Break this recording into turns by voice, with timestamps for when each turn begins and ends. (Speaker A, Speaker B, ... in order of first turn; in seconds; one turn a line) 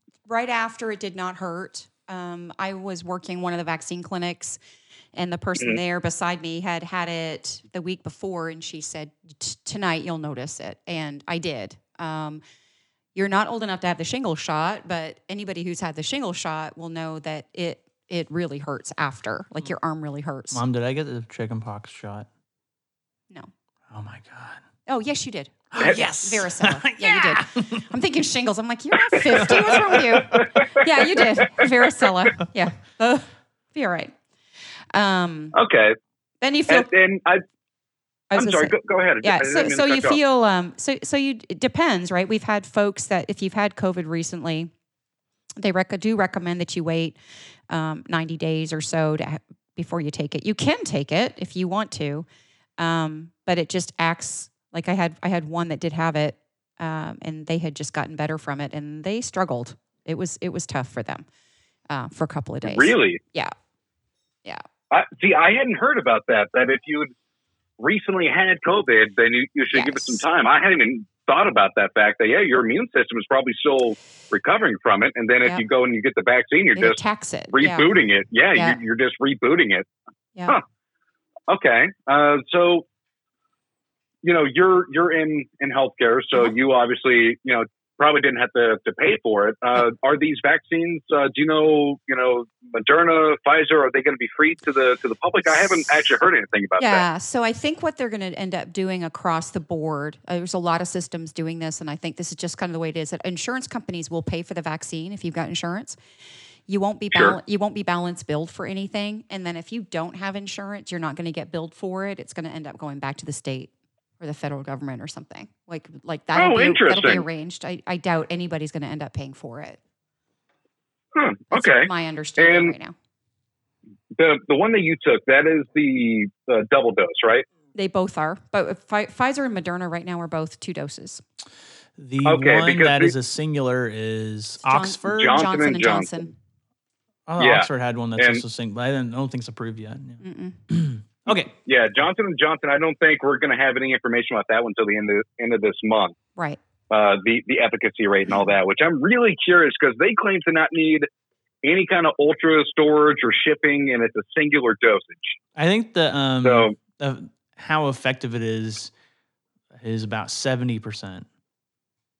Speaker A: 0.2-4.6
Speaker A: 5.1-12.4
Speaker A: 13.1-20.6
Speaker B: 20.5-22.3
Speaker B: 23.9-24.6
Speaker A: 24.9-34.1
Speaker B: 25.7-27.8
Speaker C: 29.3-31.5
Speaker A: 34.9-35.5
Speaker C: 35.5-36.0
Speaker A: 36.4-36.9
Speaker C: 36.7-37.4
Speaker A: 38.3-44.7
Speaker C: 38.3-40.2
Speaker A: 45.6-47.2
Speaker A: 47.7-52.2
Speaker A: 52.8-61.2
Speaker A: 61.9-63.5
Speaker C: 62.6-63.2
Speaker C: 64.9-67.1
Speaker C: 67.8-77.0
Speaker A: 69.7-70.2
Speaker A: 76.7-77.9
Speaker C: 77.5-79.9
Speaker C: 81.5-82.8
Speaker C: 84.2-97.0
Speaker A: 96.8-106.0
Speaker A: 106.7-119.8
Speaker C: 107.1-107.4
Speaker C: 116.3-117.2
Speaker C: 121.1-122.7
Speaker A: 121.5-122.9
Speaker C: 124.1-127.4
Speaker A: 127.7-131.2
Speaker B: 132.0-135.4
Speaker C: 132.2-133.1
Speaker A: 134.6-136.3
Speaker C: 135.1-136.2
Speaker B: 137.3-141.5
Speaker C: 137.4-138.4
Speaker A: 140.2-140.6
Speaker C: 141.6-146.2
Speaker C: 146.9-151.1
Speaker C: 151.6-155.4
Speaker B: 155.6-158.9
Speaker C: 156.4-156.7
Speaker B: 159.7-161.2